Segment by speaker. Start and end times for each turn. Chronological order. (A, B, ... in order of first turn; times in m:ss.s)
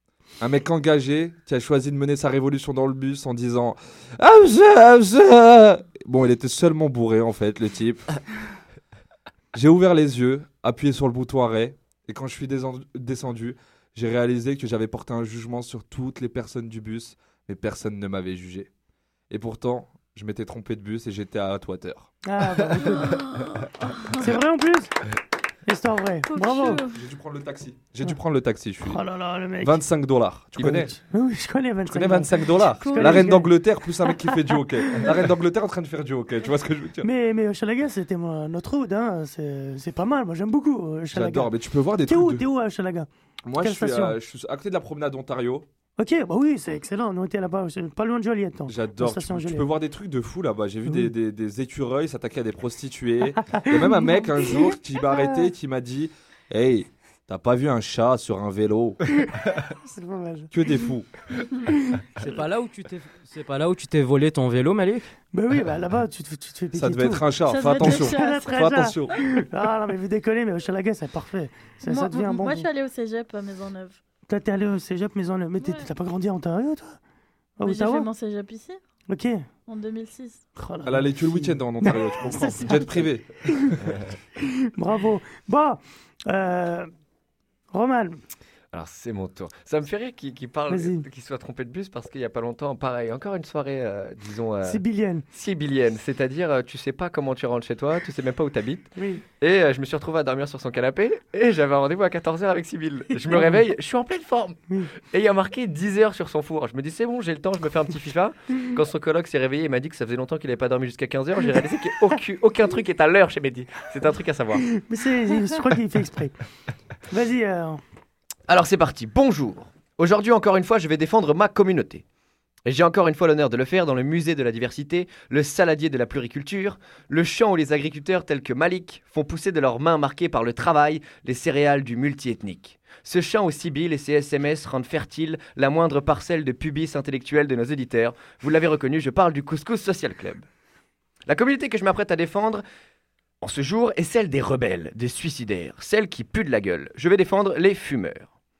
0:00.4-0:08.1 A
0:09.5-0:18.7 A
0:19.3-0:22.1 A
0:22.2-0:23.2 B
0:22.9-0:24.2 C
0:24.1-0:24.9 B
0:25.6-0:26.8 B
0:26.3-0:27.0 C
0:26.8-0:29.0 A
0:28.8-0:29.8 B
0:29.6-0:30.9 A
0:30.6-0:33.5 B
0:31.9-0:37.1 A
0:32.8-0:33.4 C
0:34.9-0:35.2 B
0:37.0-0:41.5 B
0:41.1-0:42.4 A
0:42.0-0:43.1 B
0:43.4-0:45.6 A
0:43.6-0:44.2 B
0:46.0-0:49.7 B
0:48.7-0:59.2 A
0:50.8-0:51.1 B
0:53.4-0:55.4 B
0:59.8-1:00.5 B
1:00.5-1:01.1 A
1:02.2-1:05.1 D
1:05.3-1:12.7 B
1:06.7-1:09.2 A
1:07.4-1:08.9 C
1:11.8-1:14.0 C
1:14.3-1:17.0 B
1:15.6-1:15.9 C
1:17.6-1:18.1 B
1:17.6-1:18.8 C
1:19.1-1:19.4 B
1:19.7-1:20.4 C
1:20.6-1:23.8 B
1:20.8-1:23.9 A
1:24.4-1:26.9 B
1:27.7-1:28.2 B
1:28.7-1:54.6 E
1:30.7-1:31.0 B
1:34.6-1:35.2 B
1:39.0-1:39.2 B
1:54.6-1:56.4 B
1:57.1-1:57.8 B
1:58.5-2:02.0 E
2:02.6-2:20.4 E
2:21.3-2:22.6 E
2:23.4-2:28.3 E